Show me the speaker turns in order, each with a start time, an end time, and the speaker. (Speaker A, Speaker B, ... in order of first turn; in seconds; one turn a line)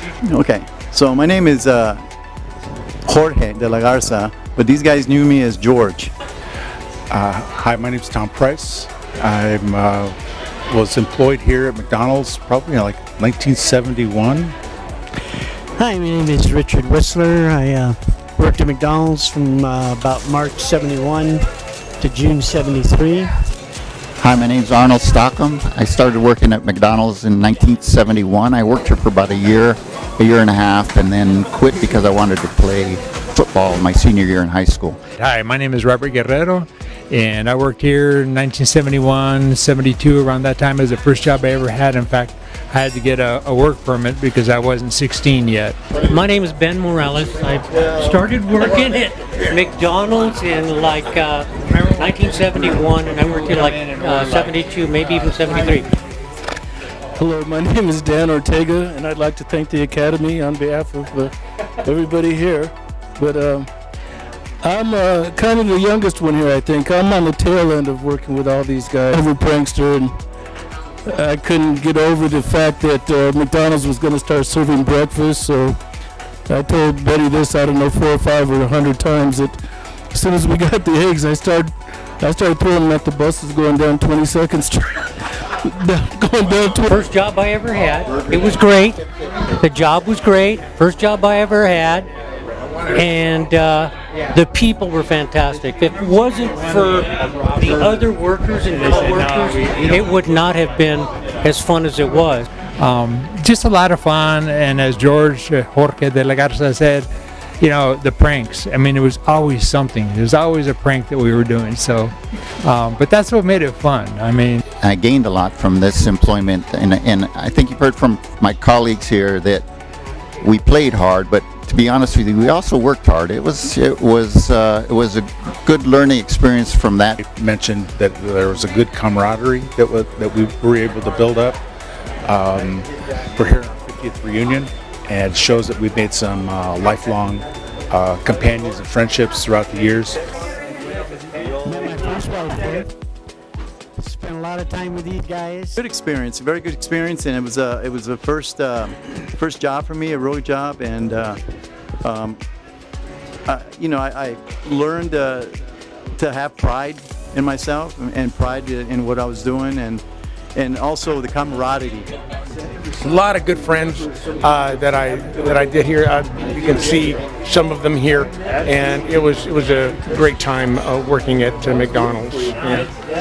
Speaker A: 0.2-2.0
Speaker A: 3.0-6.1
Speaker B: 7.1-10.2
Speaker B: 10.7-14.6
Speaker C: 15.2-21.5
Speaker C: 22.0-23.4
Speaker D: 24.2-35.0
Speaker E: 35.1-45.8
Speaker F: 46.0-55.9
Speaker G: 57.1-63.7
Speaker G: 64.6-70.2
Speaker G: 71.0-75.8
Speaker G: 76.5-86.9
Speaker F: 86.9-92.1
Speaker F: 92.9-102.5
Speaker E: 102.8-107.1
Speaker E: 107.6-114.6
Speaker D: 114.8-119.6
Speaker D: 120.4-127.2
Speaker B: 127.2-131.6
Speaker B: 132.2-140.2
Speaker C: 141.6-142.9
Speaker C: 144.0-145.8
Speaker A: 145.8-151.4
Speaker A: 152.0-152.4
Speaker A: 153.4-155.6
Speaker A: 156.2-160.0
Speaker A: 160.5-162.1
Speaker H: 163.0-172.9